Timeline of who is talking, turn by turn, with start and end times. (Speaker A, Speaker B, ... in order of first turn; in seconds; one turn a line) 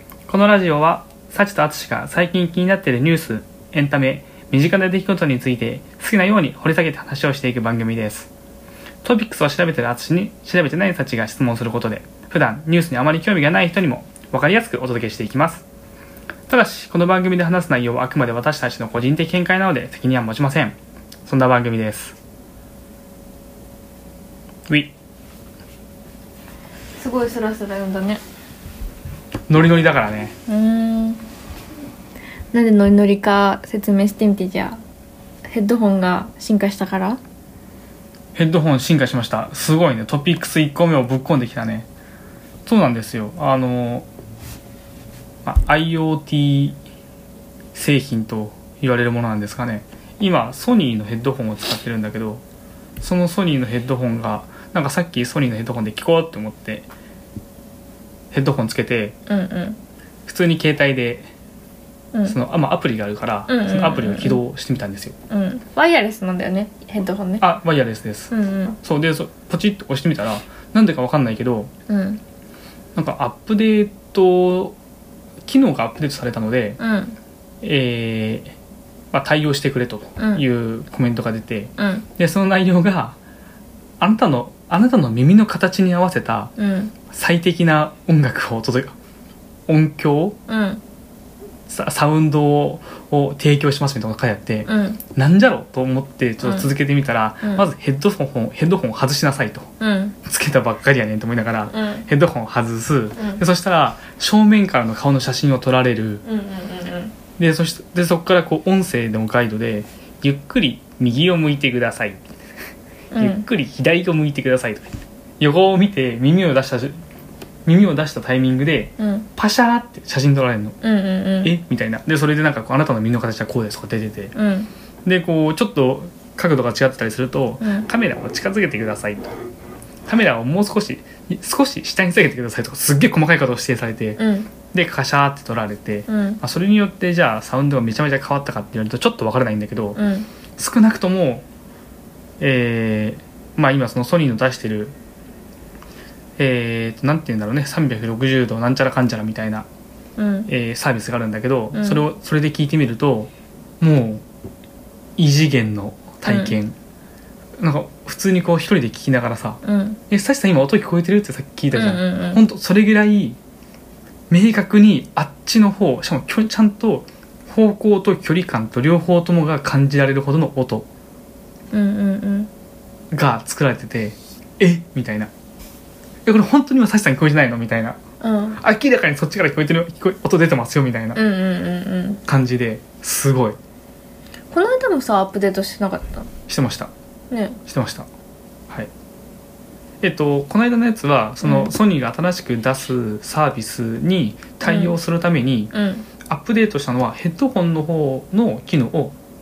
Speaker A: 0.3-8.3
Speaker A: 9.0-15.6
Speaker A: 16.5-22.2
Speaker B: 27.0-28.2
Speaker A: 29.5-30.4
Speaker B: 30.5-31.2
Speaker B: 32.5-34.8
Speaker B: 35.5-37.2
Speaker A: 38.4-41.9
Speaker A: 42.7-44.1
Speaker A: 45.5-46.8
Speaker A: 47.7-52.4
Speaker A: 53.0-56.9
Speaker A: 58.3-59.1
Speaker B: 59.3-59.8
Speaker A: 60.3-61.3
Speaker A: 62.2-65.2
Speaker B: 63.5-64.4
Speaker B: 65.3-67.5
Speaker A: 67.4-71.7
Speaker B: 68.3-68.8
Speaker B: 71.9-72.2
Speaker A: 73.0-74.8
Speaker A: 75.5-76.8
Speaker B: 76.8-77.2
Speaker A: 77.6-78.6
Speaker A: 79.1-83.2
Speaker B: 80.2-80.4
Speaker B: 81.8-82.1
Speaker A: 84.0-86.5
Speaker B: 86.6-86.9
Speaker A: 87.1-88.9
Speaker A: 89.7-90.4
Speaker B: 90.5-90.8
Speaker A: 91.7-99.7
Speaker B: 94.7-95.0
Speaker B: 96.4-96.7
Speaker B: 99.8-100.2
Speaker A: 100.2-106.2
Speaker B: 101.7-102.1
Speaker B: 106.2-107.1
Speaker A: 107.4-112.2
Speaker B: 113.1-113.5
Speaker A: 113.2-117.0
Speaker A: 117.7-120.8
Speaker B: 119.0-119.3
Speaker B: 120.8-121.5
Speaker A: 121.4-124.3
Speaker B: 124.3-124.7
Speaker A: 125.0-129.3
Speaker B: 127.6-127.9
Speaker A: 130.1-140.0
Speaker B: 134.2-134.5
Speaker B: 136.1-136.4
Speaker B: 140.0-140.3
Speaker A: 140.6-141.4
Speaker A: 142.4-144.9
Speaker A: 146.4-149.7
Speaker B: 150.2-150.5
Speaker A: 150.5-154.2
Speaker B: 151.7-152.0
Speaker A: 155.2-156.8
Speaker B: 156.3-156.6
Speaker A: 157.6-163.4
Speaker B: 159.6-160.0
Speaker B: 161.7-162.4
Speaker A: 164.3-170.9
Speaker B: 171.7-172.5
Speaker A: 173.1-175.3
Speaker A: 176.3-178.0
Speaker B: 178.2-178.6
Speaker A: 178.6-181.2
Speaker B: 181.1-182.2
Speaker A: 182.2-183.6
Speaker B: 184.5-186.3
Speaker A: 186.5-186.9
Speaker B: 187.3-187.6
Speaker A: 187.7-188.1
Speaker A: 190.0-195.7
Speaker B: 191.4-191.7
Speaker B: 194.7-194.9
Speaker B: 195.7-196.1
Speaker A: 196.2-199.2